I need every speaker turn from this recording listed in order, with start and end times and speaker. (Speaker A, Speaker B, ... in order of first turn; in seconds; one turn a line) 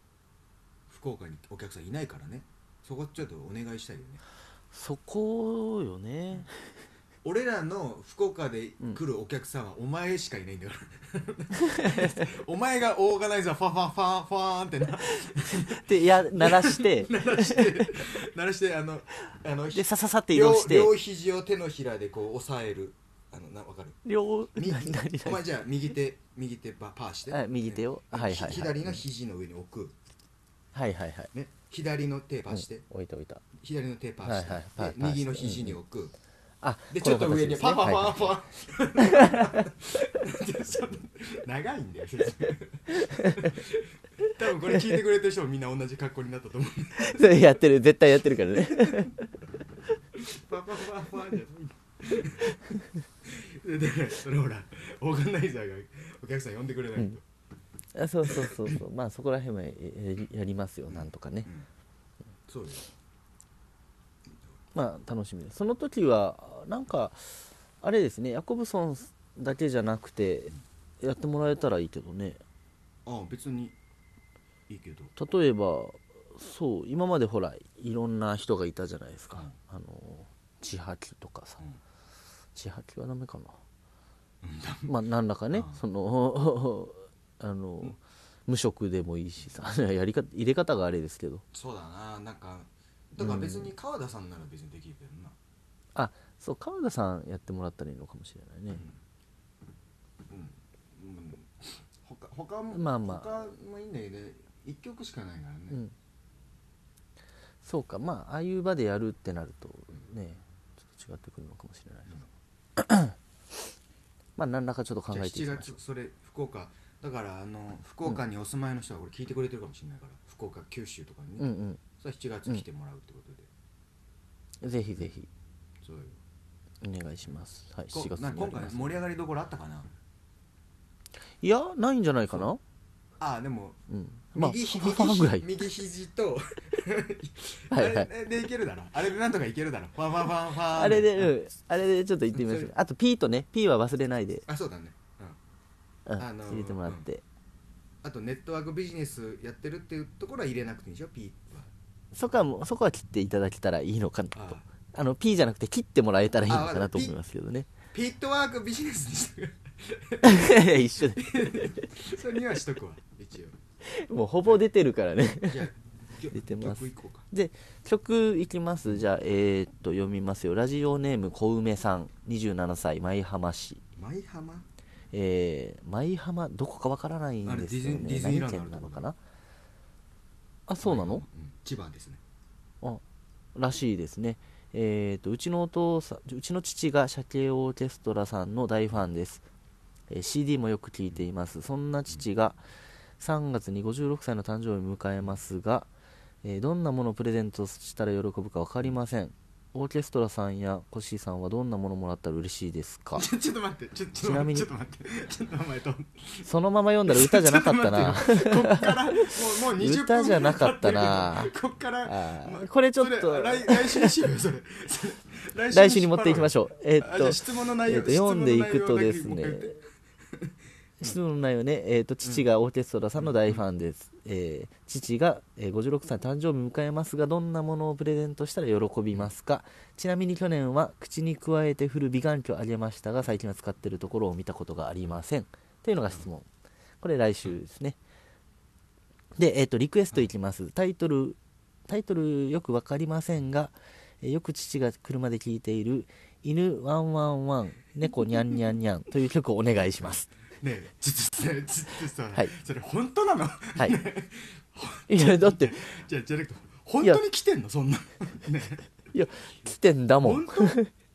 Speaker A: 0.9-4.2
Speaker B: 4.7-6.5
Speaker A: 7.2-24.0
Speaker B: 15.7-18.1
Speaker B: 19.7-20.9
Speaker B: 24.0-25.4
Speaker A: 24.5-29.9
Speaker B: 27.3-29.0
Speaker B: 30.7-31.3
Speaker A: 31.3-32.9
Speaker B: 32.5-33.4
Speaker A: 33.6-36.1
Speaker B: 34.2-35.8
Speaker B: 36.6-38.2
Speaker A: 36.9-47.3
Speaker B: 39.1-39.6
Speaker B: 47.0-49.2
Speaker A: 50.2-57.2
Speaker B: 57.9-61.5
Speaker A: 58.2-58.8
Speaker A: 60.9-61.7
Speaker A: 62.5-62.9
Speaker B: 64.7-72.4
Speaker A: 73.0-73.8
Speaker A: 74.7-75.1
Speaker B: 75.2-81.6
Speaker B: 82.5-83.6
Speaker A: 84.4-84.9
Speaker B: 84.8-91.4
Speaker A: 85.5-85.8
Speaker A: 91.5-95.3
Speaker B: 93.2-93.7
Speaker B: 95.9-98.8
Speaker A: 98.7-99.0
Speaker A: 100.3-105.8
Speaker B: 102.7-103.3
Speaker B: 107.6-112.2
Speaker B: 112.8-113.1
Speaker B: 114.4-115.7
Speaker A: 115.1-123.5
Speaker B: 121.4-121.8
Speaker B: 124.6-125.3
Speaker A: 125.8-126.2
Speaker B: 126.8-129.0
Speaker A: 127.9-129.9
Speaker B: 131.4-132.6
Speaker A: 133.2-133.8
Speaker B: 133.9-135.5
Speaker A: 134.3-141.3
Speaker B: 137.7-138.1
Speaker B: 140.7-144.4
Speaker A: 142.3-142.7
Speaker A: 144.5-145.4
Speaker B: 146.1-147.2
Speaker A: 146.2-147.1
Speaker A: 148.0-151.7
Speaker B: 152.1-157.7
Speaker A: 154.3-154.7
Speaker A: 156.4-157.2
Speaker A: 157.9-163.6
Speaker B: 160.2-161.6
Speaker B: 163.9-165.7
Speaker A: 165.5-167.3
Speaker B: 166.3-173.8
Speaker A: 174.0-174.7
Speaker B: 175.1-179.2
Speaker A: 177.4-179.1
Speaker B: 180.7-181.2
Speaker A: 180.8-182.2
Speaker B: 183.5-189.4
Speaker B: 190.1-192.6
Speaker B: 193.2-195.9
Speaker B: 196.4-203.2
Speaker A: 203.2-206.5
Speaker B: 204.2-204.7
Speaker B: 206.4-211.5
Speaker A: 207.1-219.8
Speaker B: 212.1-214.1
Speaker B: 215.7-219.8
Speaker B: 221.0-236.5
Speaker A: 223.2-223.6
Speaker B: 237.0-238.0
Speaker B: 239.4-250.3
Speaker A: 250.6-258.8
Speaker B: 255.1-255.7
Speaker B: 259.1-260.9
Speaker A: 260.2-260.8